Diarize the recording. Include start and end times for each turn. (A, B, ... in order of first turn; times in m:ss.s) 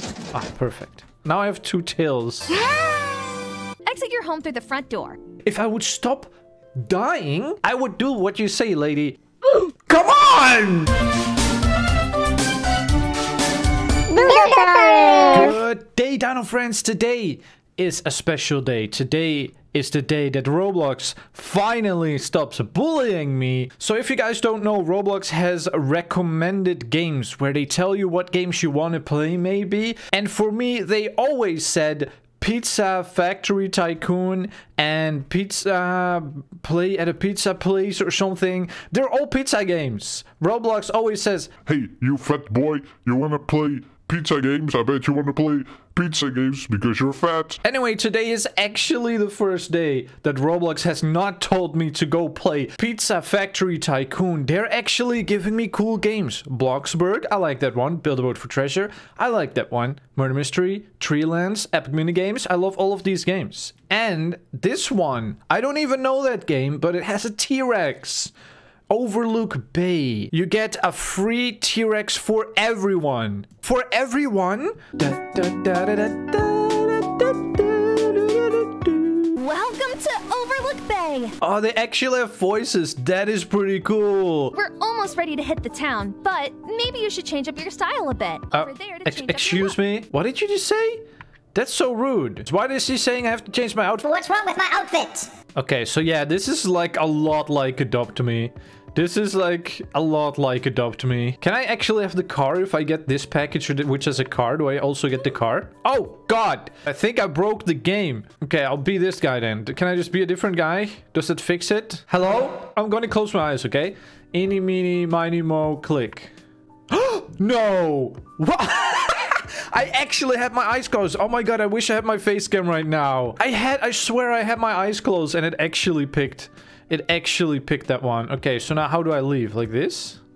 0:00.3-0:02.6 A
0:02.5-0:05.2 B
0:05.4-0:09.2 A
0:09.9-0:11.0 A
0:14.1-0:15.5 B
0:14.2-0:15.4 C
0:15.2-0:41.6 A
0:41.7-0:47.6 D
0:47.6-1:08.3 A
1:08.9-1:19.4 A
1:19.4-1:21.4 B
1:21.4-1:24.6 A
1:24.5-1:29.8 B
1:28.5-1:34.1 A
1:34.0-1:35.3 C
1:35.6-1:56.3 A
1:56.9-2:10.2 A